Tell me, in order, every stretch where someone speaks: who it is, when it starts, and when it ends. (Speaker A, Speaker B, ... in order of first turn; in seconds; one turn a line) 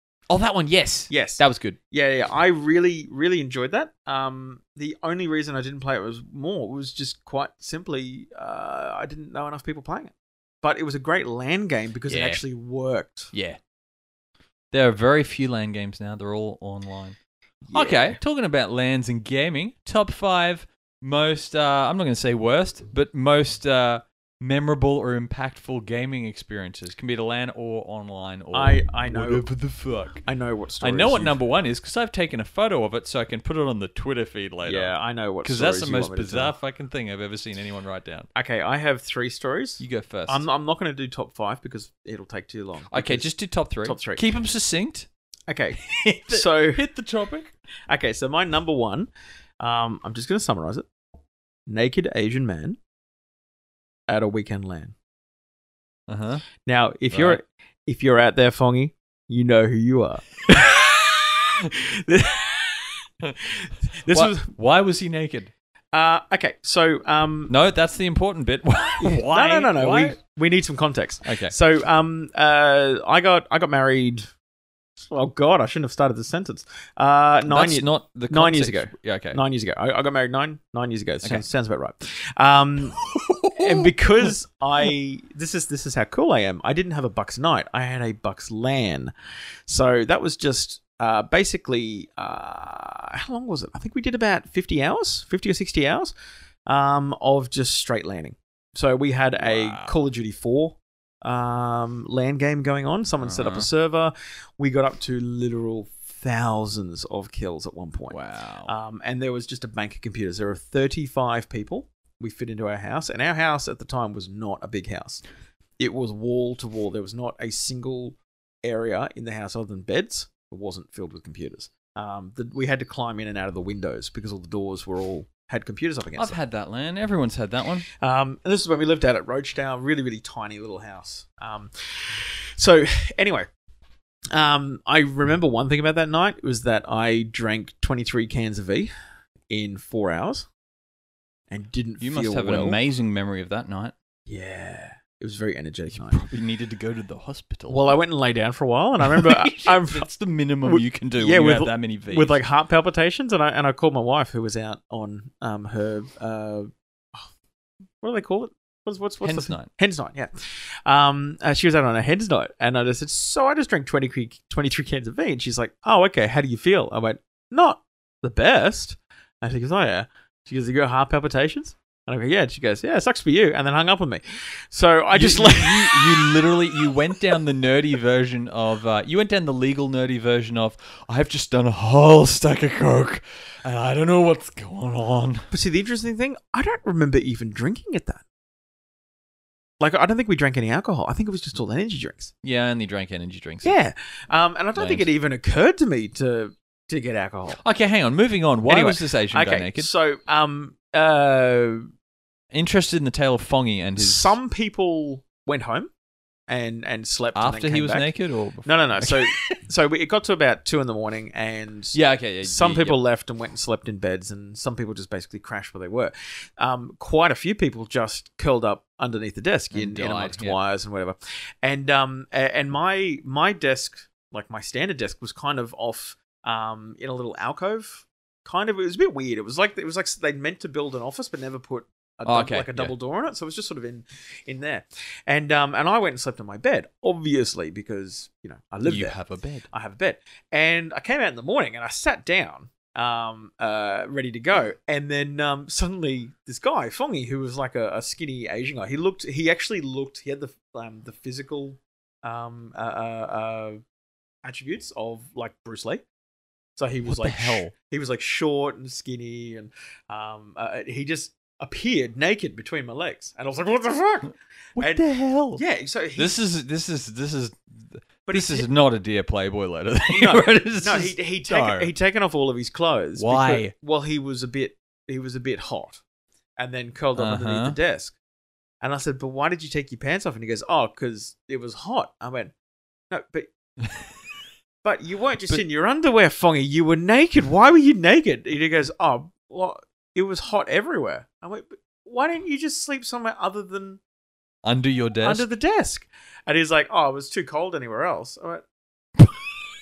Speaker A: 0.3-1.8
Speaker B: 1.1-13.3
Speaker A: 12.1-12.4
Speaker A: 13.3-13.6
Speaker A: 14.7-17.2
Speaker B: 17.6-18.2
Speaker A: 17.7-30.2
Speaker B: 28.5-29.5
Speaker B: 30.2-31.4
Speaker A: 30.8-38.3
Speaker B: 34.6-36.5
Speaker B: 38.3-43.3
Speaker A: 39.8-40.4
Speaker A: 42.9-45.1
Speaker B: 43.8-44.2
Speaker B: 45.5-46.8
Speaker A: 45.8-47.5
Speaker B: 47.9-50.9
Speaker B: 51.7-52.8
Speaker B: 54.1-54.9
Speaker A: 56.1-56.4
Speaker B: 56.6-64.5
Speaker A: 57.1-57.4
Speaker A: 64.1-65.5
Speaker B: 65.9-67.5
Speaker A: 67.5-70.2
Speaker B: 69.0-74.3
Speaker A: 71.2-71.5
Speaker B: 75.0-83.0
Speaker A: 77.5-79.4
Speaker A: 82.9-84.3
Speaker B: 83.5-89.1
Speaker B: 89.7-96.1
Speaker B: 96.7-115.2
Speaker A: 99.4-100.0
Speaker A: 103.2-103.7
Speaker A: 108.1-108.7
Speaker B: 115.8-126.4
Speaker A: 126.2-127.9
Speaker B: 127.9-133.5
Speaker B: 134.3-138.9
Speaker B: 139.5-140.5
Speaker B: 141.5-142.8
Speaker A: 142.0-143.9
Speaker B: 144.3-146.2
Speaker A: 145.9-147.9
Speaker B: 147.7-150.1
Speaker A: 149.0-152.4
Speaker B: 150.6-157.3
Speaker B: 158.0-177.3
Speaker A: 159.2-159.7
Speaker A: 175.1-185.5
Speaker B: 185.5-188.2
Speaker B: 189.8-192.3
Speaker A: 192.4-193.7
Speaker B: 193.6-197.6
Speaker A: 194.7-195.1
Speaker A: 197.6-199.9
Speaker B: 198.7-201.9
Speaker A: 202.5-204.3
Speaker B: 204.0-205.9
Speaker B: 206.5-208.1
Speaker A: 207.3-209.6
Speaker B: 208.6-239.2
Speaker A: 211.9-213.0
Speaker A: 219.7-220.6
Speaker A: 232.2-232.9
Speaker A: 238.8-239.7
Speaker B: 239.7-253.8
Speaker B: 254.4-256.0
Speaker B: 256.8-265.0
Speaker A: 257.1-257.7
Speaker A: 264.8-265.6
Speaker B: 265.5-266.4
Speaker A: 266.2-271.9
Speaker B: 268.2-268.7
Speaker B: 270.1-276.0
Speaker A: 273.2-273.7
Speaker B: 276.6-278.1
Speaker A: 277.1-277.8
Speaker B: 278.8-282.5
Speaker B: 283.1-283.5
Speaker B: 284.8-294.0
Speaker A: 294.6-295.5
Speaker B: 295.2-298.6